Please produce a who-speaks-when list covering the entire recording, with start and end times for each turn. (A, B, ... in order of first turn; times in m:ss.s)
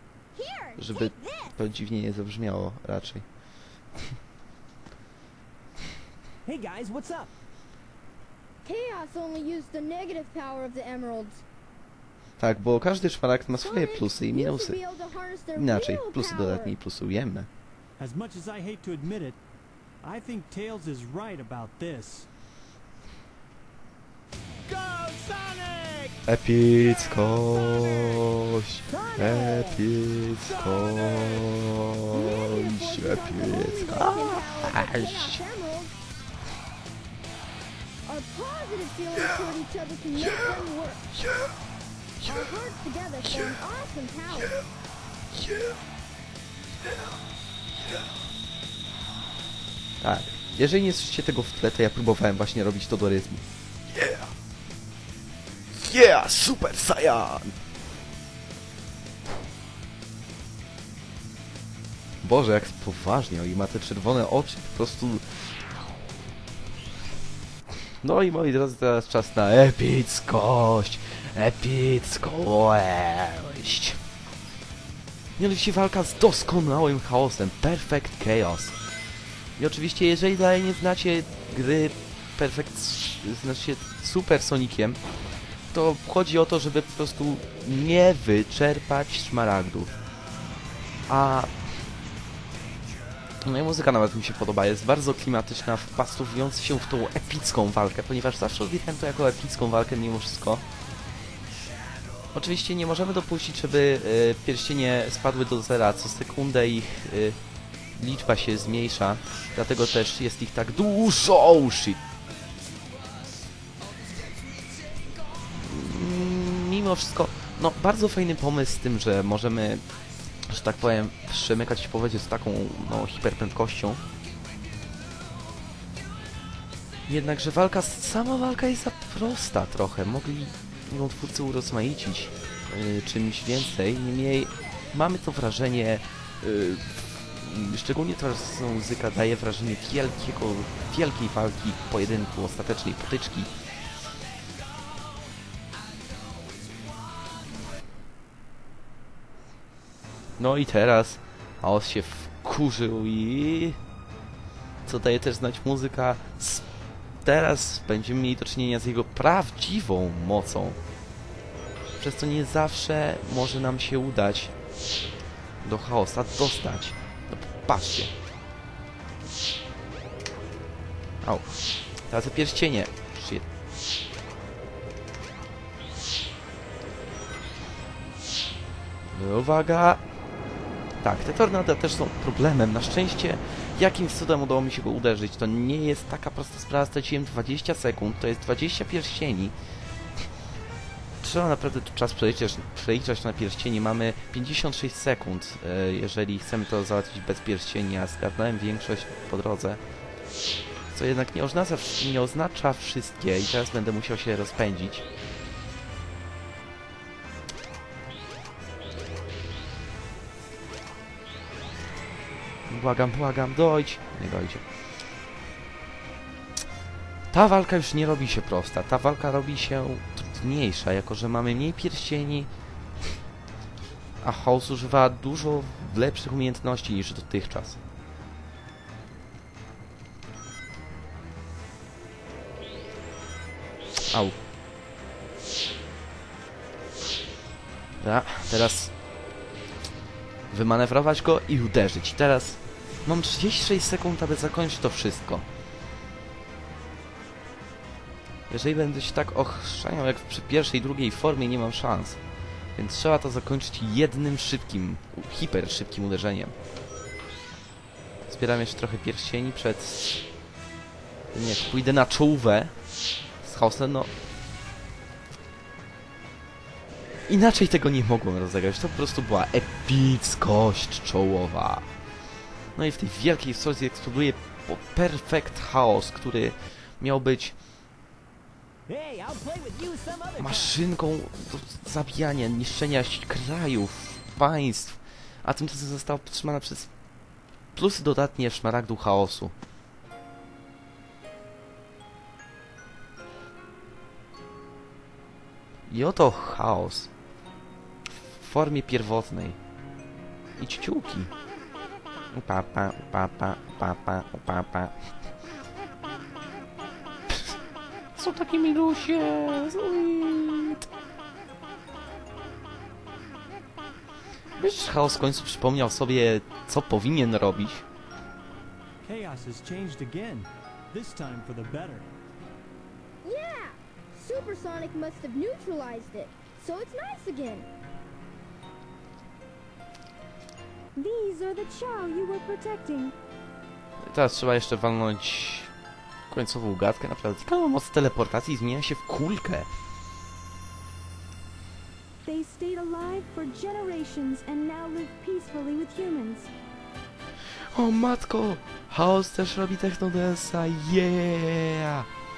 0:00.4-0:01.6 A
0:00.8-0:03.2 B
0:06.4-0:07.3 C
0:08.6-0:11.4 A
0:12.4-0:14.8 B
0:13.6-0:16.8 A
0:15.5-0:17.5 B
0:18.0-0:19.4 D
0:20.0-0:22.3 D
0:25.6-0:26.0 D
0:26.2-0:35.4 B
0:29.0-0:29.8 A
0:32.1-0:35.9 A
0:38.0-0:41.1 A
0:40.2-0:40.6 B
0:41.2-0:41.5 B
0:42.2-0:42.4 B
0:42.2-0:44.6 A
0:45.4-0:45.7 B
0:50.0-0:54.3 B
0:55.7-0:57.5 B
1:02.2-1:05.2 B
1:08.0-1:14.0 B
1:15.4-1:18.8 B
1:19.6-1:25.0 B
1:25.7-1:29.9 B
1:31.1-1:31.5 B
1:33.4-1:40.6 B
1:42.3-1:47.4 B
1:48.0-1:52.0 B
1:55.5-1:59.8 B
2:00.4-2:04.0 B
2:07.1-2:23.5 B
2:30.4-2:33.8 B
2:34.8-2:36.6 B
2:37.2-2:40.8 B
2:42.0-2:44.5 B
2:45.6-2:48.1 B
2:52.1-2:53.5 B
2:59.1-3:00.0 B
3:01.0-3:09.5 B
3:11.2-3:19.8 B
3:20.9-3:25.0 B
3:32.7-3:34.6 B
3:37.3-3:42.5 B
3:44.2-3:47.8 B
3:54.1-3:54.4 B
3:58.0-3:58.9 B
4:00.5-4:05.4 B
4:08.5-4:12.2 B
4:12.8-4:16.5 B
4:18.3-4:20.1 B
4:21.3-4:22.7 B
4:23.4-4:24.1 B
4:27.3-4:31.8 B
4:32.8-4:37.6 B
4:38.9-4:40.8 C
4:40.4-4:46.9 B
4:47.7-4:49.5 B
4:55.9-4:57.1 B
4:58.4-4:59.6 B
5:00.6-5:01.3 B
5:02.3-5:04.9 B
5:08.2-5:10.8 B
5:14.6-5:17.8 B
5:19.0-5:22.0 D
5:20.9-5:21.9 E
5:23.2-5:27.7 A
5:30.9-5:33.1 E
5:34.0-5:35.7 B
5:36.3-5:39.7 B
5:42.2-5:46.5 E
5:47.7-5:52.1 B